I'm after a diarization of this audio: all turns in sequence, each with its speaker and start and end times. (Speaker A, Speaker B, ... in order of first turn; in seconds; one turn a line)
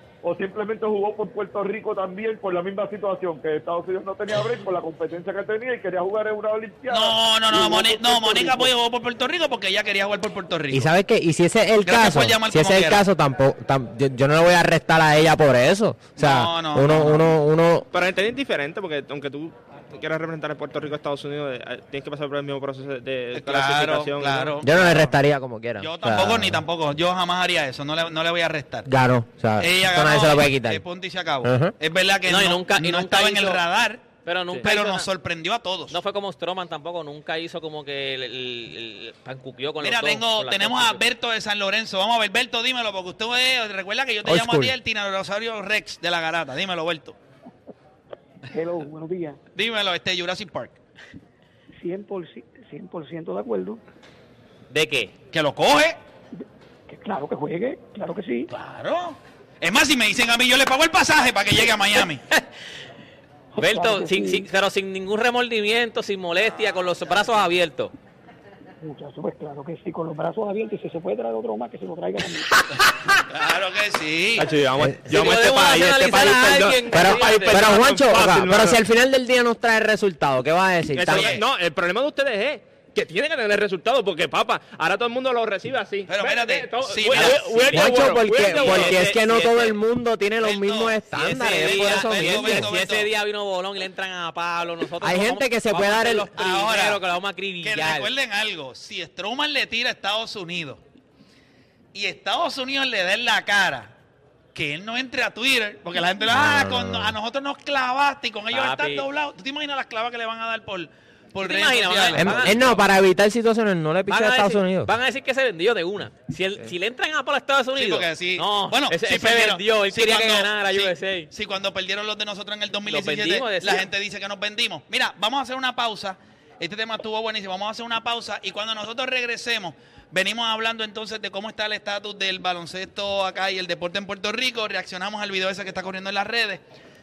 Speaker A: 0.2-8.7
Speaker B: 6.9-10.9
Speaker C: 10.7-17.9
Speaker B: 11.8-13.0
Speaker B: 16.2-17.3
Speaker D: 17.9-24.6
Speaker B: 23.3-25.2
Speaker C: 24.6-26.6
Speaker B: 25.8-28.9
Speaker C: 28.9-30.8
Speaker B: 29.6-34.1
Speaker C: 31.4-31.8
Speaker E: 32.2-33.6
Speaker E: 34.2-35.1
Speaker B: 34.6-36.0
Speaker E: 35.9-41.0
Speaker B: 39.8-47.2
Speaker C: 44.2-44.8
Speaker F: 48.5-49.4
Speaker B: 49.5-50.8
Speaker F: 51.8-53.8
Speaker E: 54.7-55.2
Speaker B: 55.3-56.0
Speaker F: 56.9-58.5
Speaker B: 58.5-62.2
Speaker E: 62.1-62.4
Speaker F: 63.5-64.5
Speaker E: 63.6-67.9
Speaker F: 68.8-72.5
Speaker B: 73.3-74.5
Speaker D: 74.4-78.8
Speaker C: 74.8-75.0
Speaker E: 75.0-77.7
Speaker C: 76.9-81.4
Speaker D: 80.9-89.8
Speaker B: 81.1-81.4
Speaker B: 86.1-87.8
Speaker C: 87.2-92.8
Speaker E: 88.3-89.0
Speaker B: 90.4-93.1
Speaker E: 91.1-98.1
Speaker D: 92.1-92.5
Speaker C: 95.0-96.3
Speaker B: 96.3-97.0
Speaker B: 97.6-100.8
Speaker B: 101.9-103.9
Speaker B: 104.5-112.8
Speaker C: 106.3-107.2
Speaker E: 108.5-109.1
Speaker E: 111.4-112.8
Speaker C: 112.1-114.9
Speaker E: 114.0-121.3
Speaker B: 117.8-136.6
Speaker E: 122.8-123.9